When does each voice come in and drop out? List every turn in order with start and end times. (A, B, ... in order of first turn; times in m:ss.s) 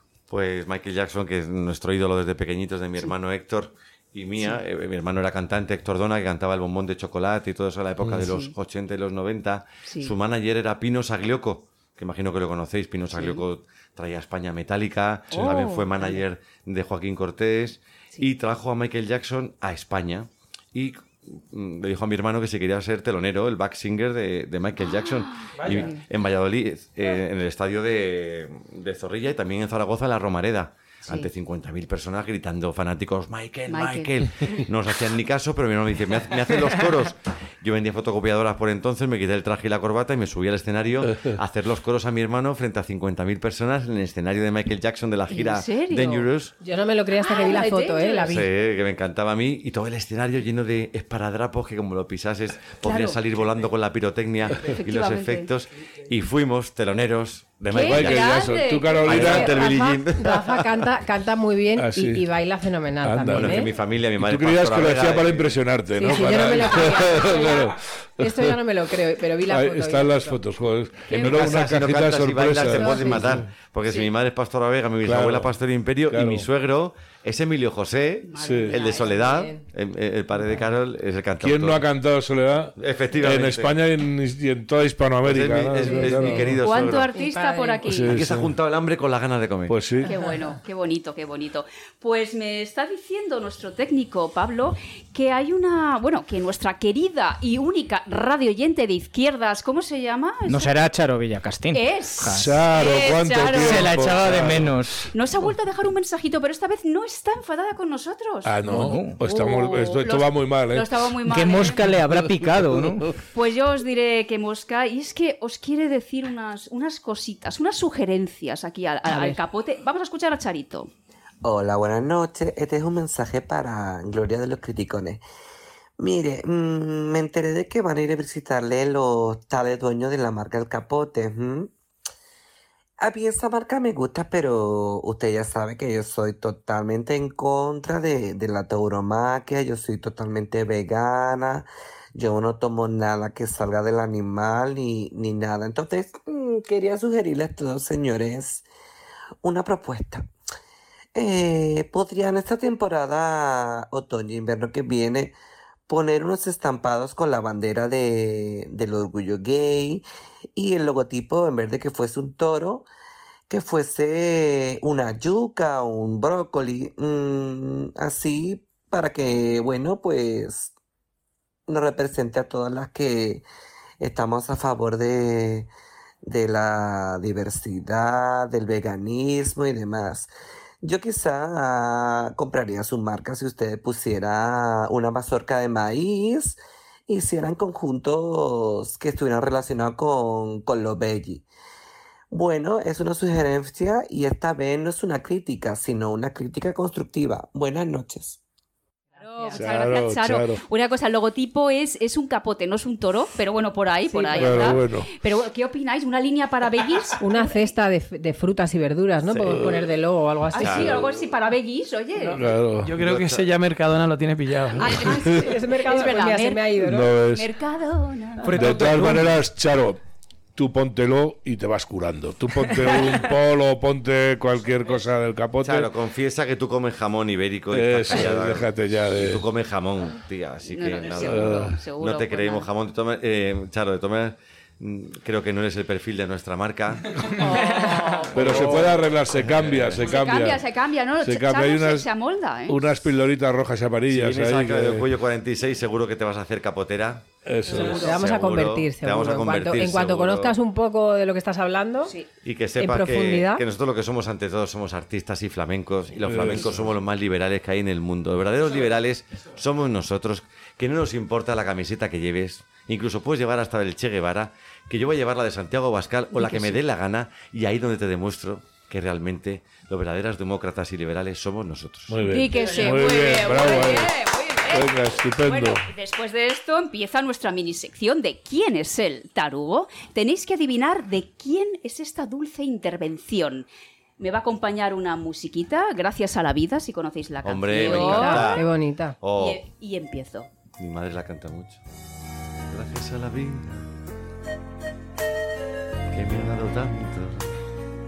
0:00.3-0:46.5 A
0:08.1-0:08.5 B
0:09.8-0:10.1 B
0:13.2-0:13.4 B
0:15.3-0:16.2 B
0:24.8-0:26.0 B
0:25.6-0:25.9 C
0:33.7-0:34.1 B
0:45.3-0:46.3 B
0:46.6-0:48.5 D
0:47.2-0:48.3 B
0:48.3-0:58.3 A
0:52.8-0:53.2 B
0:54.6-0:55.5 B
0:57.7-0:59.3 B
0:57.7-0:59.6 E
0:59.0-1:00.9 A
0:59.1-1:03.7 D
1:01.8-1:02.3 E
1:03.0-1:03.6 E
1:03.3-1:05.6 A
1:04.2-1:08.6 E
1:05.9-1:10.4 D
1:09.5-1:13.4 E
1:11.1-1:11.4 B
1:11.1-1:21.9 A
1:12.7-1:13.3 D
1:15.0-1:15.5 E
1:16.1-1:16.5 E
1:18.2-1:19.4 B
1:18.4-1:18.7 E
1:18.9-1:19.6 D
1:21.4-1:26.6 E
1:22.8-1:23.7 A
1:25.2-1:27.1 A
1:25.8-1:26.6 D
1:26.6-1:28.2 B
1:27.1-1:27.8 D
1:27.9-1:28.5 E
1:28.1-1:29.8 A
1:29.7-1:30.1 E
1:30.0-1:40.8 B
1:40.5-1:42.6 F
1:41.7-1:44.2 B
1:42.3-1:44.7 E
1:43.5-1:45.1 F
1:45.1-1:48.5 B
1:48.4-1:50.9 E
1:48.6-1:49.2 F
1:49.2-1:51.8 B
1:51.2-1:53.1 F
1:53.3-2:00.9 B
1:59.0-1:59.4 D
2:01.4-2:05.2 G
2:06.0-2:11.7 G
2:13.0-2:28.6 G
2:29.4-2:30.3 G
2:31.1-2:35.3 G
2:35.9-2:42.8 G
2:43.5-2:50.7 G
2:51.7-2:53.4 G
2:54.0-2:55.7 G
2:56.2-3:00.3 G
3:00.8-3:11.4 G
3:12.3-3:18.4 G
3:19.2-3:27.7 B
3:19.5-3:20.6 E
3:24.1-3:24.8 D
3:24.4-3:25.1 E
3:27.2-3:31.0 D
3:29.3-3:29.8 E
3:30.5-3:32.4 B
3:30.6-3:31.0 A
3:32.3-3:33.0 E
3:32.8-3:35.1 C
3:33.0-3:33.4 A
3:34.8-3:38.9 B
3:34.9-3:37.1 D
3:36.8-3:37.5 E
3:38.4-3:39.3 F
3:38.5-3:40.0 E
3:40.6-3:45.9 E
3:45.6-3:57.3 A
3:47.7-3:49.4 E
3:50.7-3:52.7 B
3:51.2-3:51.7 E
3:57.3-3:58.9 B
3:58.1-3:58.8 F
3:58.3-4:00.6 E
3:58.4-4:00.1 A
4:00.0-4:02.9 B
4:01.2-4:02.1 E
4:02.7-4:05.1 E
4:04.1-4:10.6 A
4:07.4-4:08.1 E
4:07.7-4:08.1 B
4:07.7-4:12.1 D
4:12.0-4:12.3 B
4:12.4-4:32.4 A
4:12.8-4:13.6 D
4:16.2-4:16.9 E
4:26.3-4:26.8 B
4:32.1-4:34.1 E
4:32.2-4:43.7 B
4:34.7-4:35.8 E
4:44.2-4:48.6 B
4:47.4-4:48.7 A
4:47.7-4:49.2 D
4:49.2-4:49.6 A
4:49.3-4:50.5 B
4:50.8-4:51.8 A
4:52.7-4:53.9 A
4:56.1-4:57.5 A